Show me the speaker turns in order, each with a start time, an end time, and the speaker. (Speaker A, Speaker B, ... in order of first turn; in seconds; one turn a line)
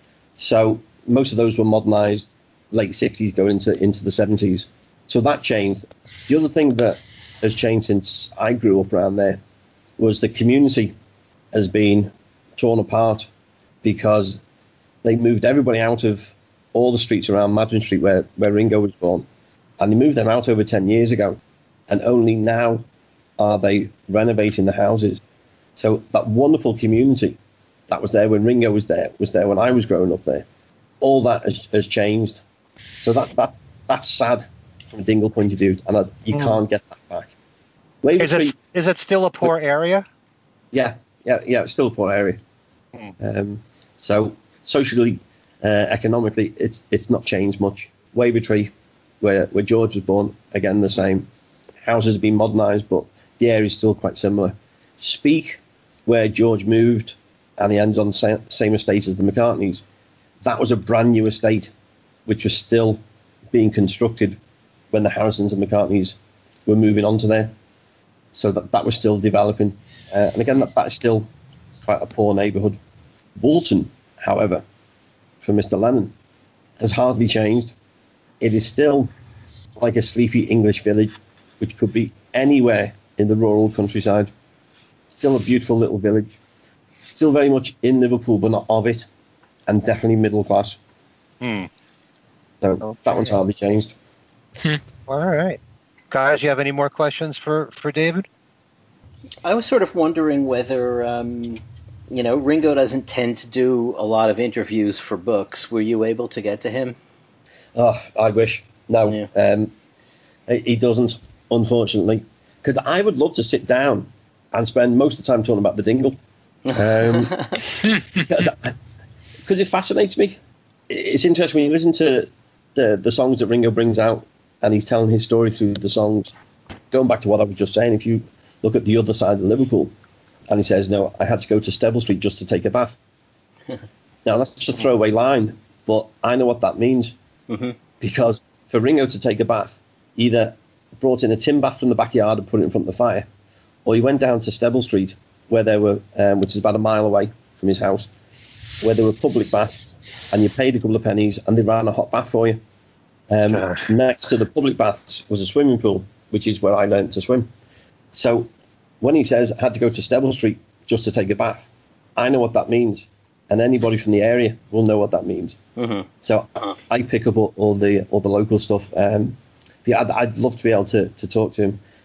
Speaker A: 0.4-9.4
Speaker A: 10.0-10.9
Speaker A: 11.5-13.3
Speaker A: 13.8-14.4
Speaker A: 15.0-19.3
Speaker A: 19.8-22.9
Speaker A: 23.4-25.2
Speaker A: 25.8-27.4
Speaker A: 27.9-30.5
Speaker A: 31.0-32.4
Speaker A: 33.0-37.3
Speaker B: 36.3-36.6
Speaker A: 38.0-38.5
Speaker B: 38.2-40.1
Speaker A: 40.7-42.4
Speaker A: 43.2-51.3
Speaker A: 51.8-59.8
Speaker A: 60.4-61.7
Speaker A: 62.3-63.0
Speaker A: 63.5-64.4
Speaker A: 64.9-67.5
Speaker A: 68.3-71.3
Speaker A: 71.8-72.8
Speaker A: 73.4-74.6
Speaker A: 75.4-76.1
Speaker A: 76.8-77.8
Speaker A: 78.4-79.1
Speaker A: 79.8-84.3
Speaker A: 85.1-86.3
Speaker A: 87.1-89.1
Speaker A: 89.7-90.8
Speaker B: 91.4-91.7
Speaker A: 92.6-93.9
Speaker B: 92.9-93.2
Speaker B: 95.1-95.6
Speaker B: 96.1-98.3
Speaker C: 99.4-107.0
Speaker A: 107.8-109.7
Speaker A: 110.5-116.2
Speaker C: 116.7-117.6
Speaker A: 116.7-117.4
Speaker A: 118.1-118.8
Speaker A: 119.5-120.4
Speaker A: 120.9-126.3
Speaker A: 126.9-129.9
Speaker A: 130.5-133.0
Speaker A: 134.2-137.2
Speaker C: 137.5-137.8
Speaker A: 138.0-143.3
Speaker A: 143.8-148.1
Speaker A: 148.8-149.8
Speaker A: 150.3-152.6
Speaker A: 153.3-157.5
Speaker B: 153.5-153.9
Speaker A: 158.1-158.5
Speaker A: 159.0-165.6
Speaker C: 165.8-166.1
Speaker A: 166.2-171.8